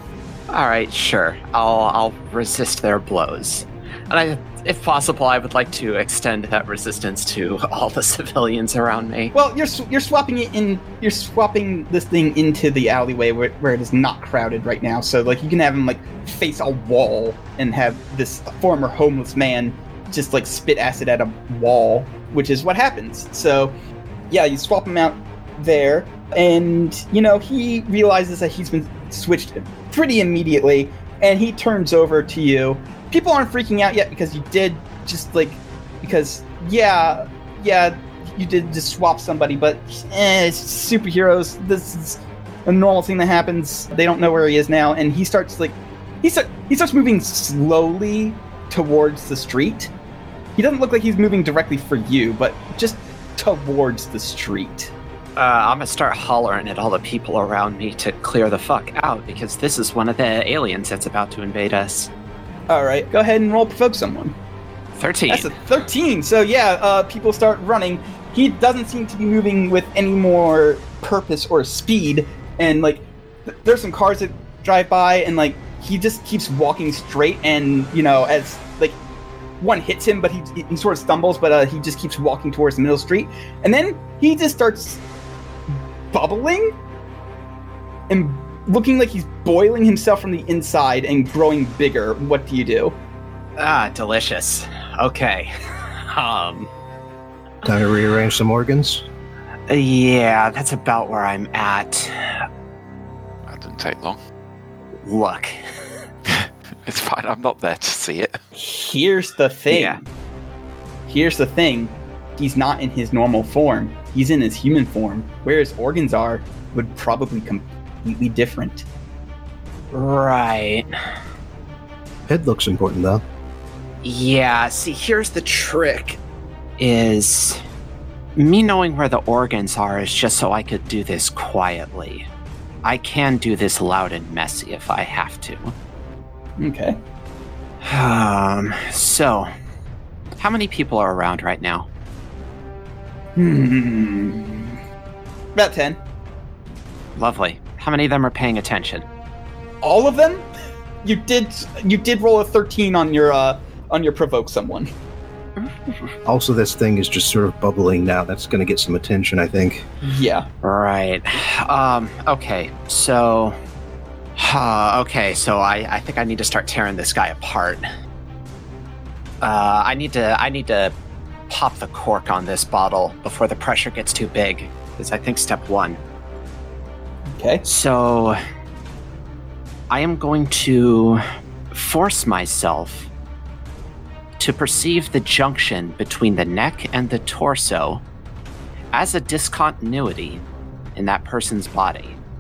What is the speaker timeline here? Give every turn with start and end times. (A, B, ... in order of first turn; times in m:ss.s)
0:00.5-0:09.3 A
0:09.3-0:23.8 B
0:24.3-0:49.9 B
0:50.6-0:54.9 B
0:55.4-1:02.1 A
1:02.7-1:04.4 B
1:05.0-1:05.6 A
1:05.3-1:19.0 B
1:19.6-1:25.0 B
1:25.7-1:26.7 B
1:28.1-1:33.0 B
1:33.6-1:36.7 A
1:37.6-1:39.1 C
1:39.7-1:42.3 A
1:43.5-1:44.2 D
1:45.0-1:45.6 A
1:46.3-1:48.4 D
1:48.6-1:50.0 B
1:49.7-1:50.0 A
1:51.1-1:58.8 B
1:59.9-2:00.9 A
2:02.3-2:03.2 C
2:04.0-2:06.2 A
2:06.8-2:07.6 A
2:08.4-2:12.3 A
2:12.8-2:15.7 A
2:16.6-2:17.0 B
2:17.8-2:19.5 A
2:20.4-2:21.9 A
2:23.4-2:24.8 B
2:25.6-2:26.0 B
2:27.2-2:29.0 A
2:29.8-2:30.5 B
2:31.0-2:34.9 B
2:35.6-2:35.9 A
2:36.3-2:39.9 C
2:40.0-2:40.5 B
2:40.6-2:43.6 A
2:44.4-2:47.9 A
2:49.4-2:50.9 A
2:51.5-2:56.0 A
2:57.3-2:57.6 B
2:57.7-2:58.4 A
2:59.9-3:03.1 A
3:04.4-3:08.0 A
3:08.9-3:10.4 A
3:11.0-3:12.2 A